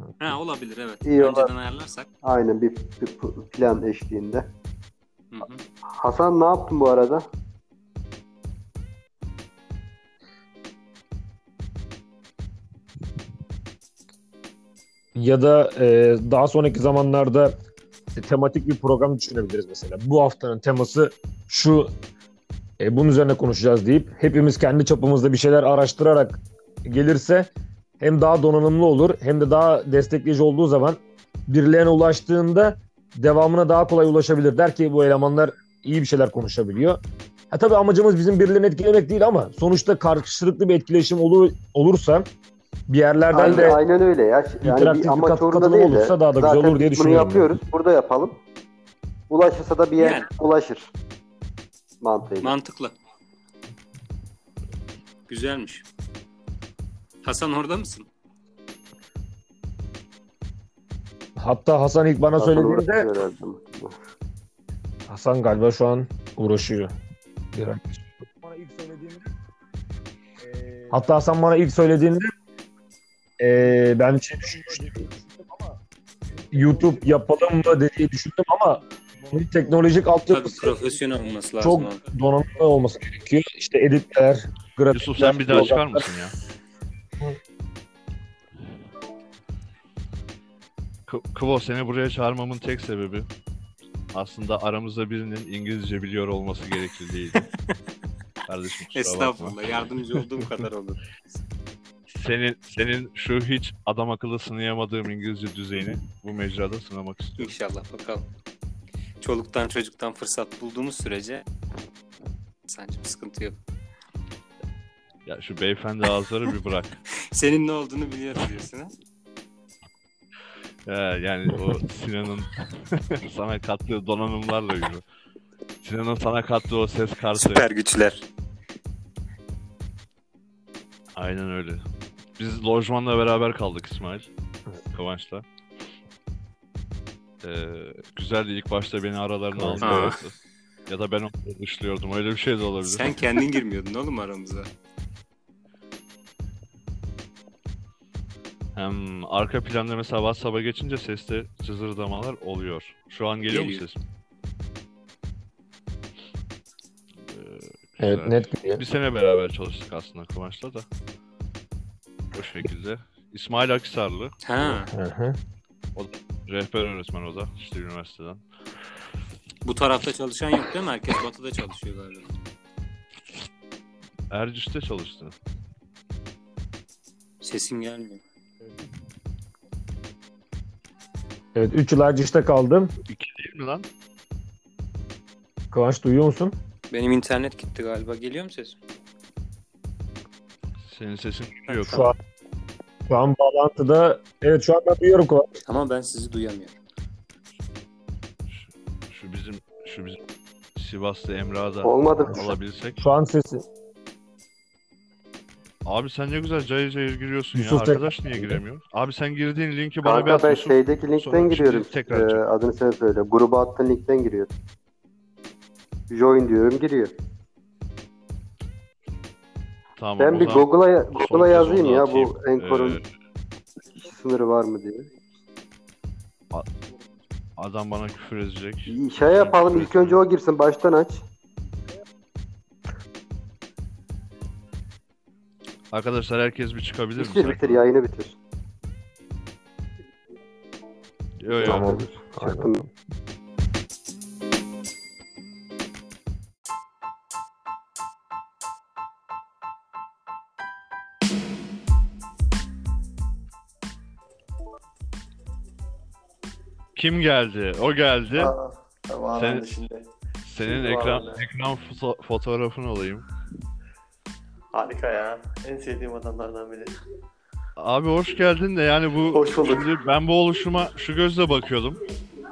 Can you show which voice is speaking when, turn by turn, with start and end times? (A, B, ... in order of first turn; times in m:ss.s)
0:00.2-0:02.1 A
0:01.0-0:01.5 B
0:02.2-0:04.5 B
0:05.3-0:05.6 A
0:05.9-0:07.3 B
0:15.2-0:17.6 C
0:18.2-0:21.9 C
0:22.8-0:37.0 C
0:37.5-0:42.3 C
0:42.9-0:43.8 C
0:43.3-0:48.4 B
0:44.6-0:47.5 C
0:49.3-0:50.9 B
0:50.0-0:50.3 A
0:52.0-0:52.6 B
0:52.4-0:53.0 A
0:55.3-0:55.8 A
0:57.2-0:58.1 A
1:01.4-1:03.1 C
1:02.4-1:04.0 B
1:05.1-1:06.9 C
1:07.5-1:09.3 C
1:10.9-1:12.3 C
1:13.4-1:15.6 C
1:16.5-1:20.8 C
1:20.3-1:22.0 A
1:21.6-1:26.1 C
1:24.9-1:26.4 D
1:31.1-1:33.3 D
1:34.1-1:37.5 D
1:38.5-1:39.6 D
1:38.9-1:41.0 A
1:42.2-1:47.6 D
1:47.4-1:48.3 A
1:49.2-1:51.4 A
1:52.7-1:53.6 A
1:55.3-1:57.0 D
1:57.3-1:58.9 A
2:00.9-2:05.0 D
2:05.8-2:07.7 D
2:07.4-2:08.2 A
2:11.2-2:11.8 D
2:12.4-2:14.3 D
2:14.9-2:15.4 D
2:17.4-2:20.4 D
2:19.5-2:20.2 C
2:19.8-2:20.2 A
2:20.9-2:23.2 D
2:22.8-2:24.7 A
2:28.8-2:34.0 D
2:33.5-2:33.8 A
2:37.3-2:40.8 D
2:38.0-2:38.8 C
2:42.3-2:44.4 D
2:44.4-2:44.9 A
2:44.7-2:45.4 C
2:46.0-2:48.4 D
2:49.6-2:52.3 A
2:54.3-2:55.4 D
2:57.4-2:58.2 A
3:01.6-3:02.9 C
3:03.1-3:03.9 D
3:05.7-3:06.6 C
3:06.9-3:08.8 A
3:10.8-3:12.1 D
3:11.8-3:12.2 C
3:13.1-3:15.5 C
3:15.7-3:16.8 A
3:18.5-3:20.2 D
3:20.8-3:23.0 D
3:21.8-3:22.6 B
3:23.0-3:23.6 C
3:25.9-3:32.4 D
3:27.5-3:28.6 C
3:30.0-3:34.5 B
3:36.1-3:37.2 B
3:40.0-3:43.0 D
3:40.2-3:43.0 B
3:44.0-3:45.1 B
3:47.6-3:50.2 D
3:48.9-3:51.2 B
3:55.9-3:57.8 D
3:57.2-3:58.4 B
4:01.4-4:02.0 D
4:01.5-4:02.8 B
4:01.6-4:02.8 C
4:17.0-4:18.5 D
4:18.4-4:20.1 E
4:19.4-4:19.7 D
4:20.4-4:23.3 D
4:20.6-4:21.4 E
4:24.7-4:27.0 E
4:27.8-4:32.0 D
4:29.3-4:29.9 E